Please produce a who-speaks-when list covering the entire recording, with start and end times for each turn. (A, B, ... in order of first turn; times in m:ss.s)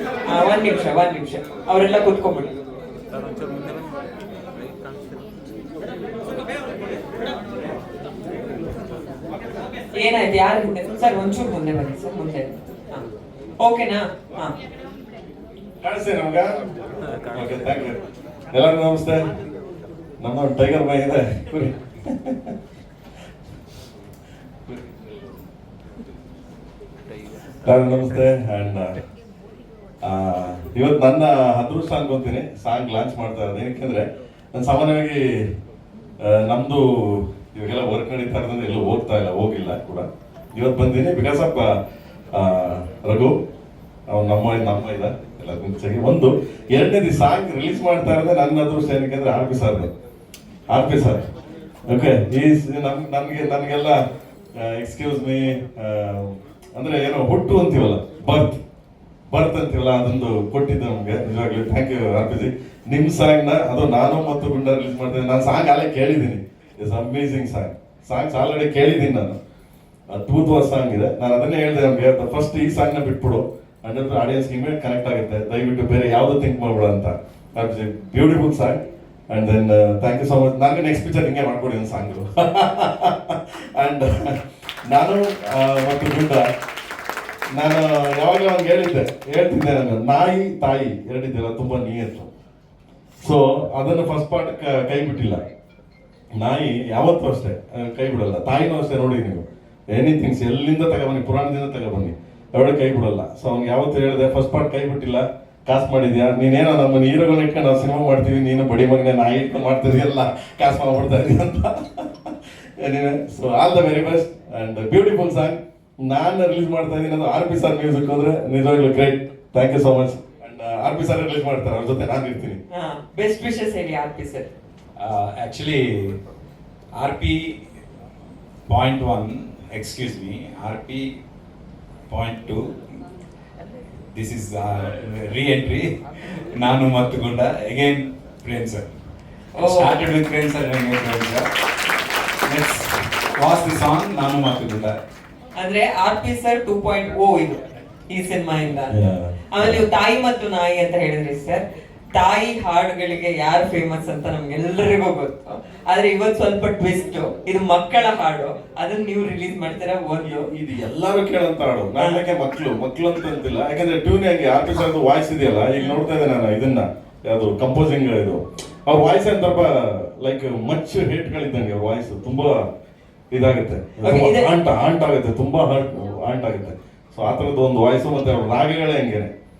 0:00.2-0:02.5 A
0:09.9-0:13.0 A
0:13.6-0:14.5 A
0:15.8-0:16.5 B
0:17.3-0:18.0 B
0:18.5-0:19.2 B
0:20.2-0:22.5 B
0:27.6-0:28.9 B
0:30.0-0:35.2 B
0:36.2-0:41.7 B
0:42.3-0:43.3 B
0:44.1-0:49.9 B
0:50.7-0:51.2 B
0:51.9-0:54.0 B
0:54.6-0:58.6 B
0:59.3-1:09.4 B
1:10.1-1:26.5 B
1:27.5-1:32.3 B
1:33.2-1:35.4 B
1:36.3-2:02.6 B
2:02.7-2:04.5 A
2:05.0-2:06.2 C
2:07.0-2:07.6 C
2:08.7-2:11.1 C
2:12.1-2:12.8 C
2:14.1-2:18.8 C
2:19.6-2:20.0 A
2:19.6-2:21.5 C
2:22.4-2:25.0 C
2:25.6-2:29.0 A
2:28.9-2:29.8 B
2:29.5-2:31.6 A
2:32.1-2:40.5 A
2:40.2-2:52.6 B
2:53.3-2:59.3 B
2:54.0-2:54.5 A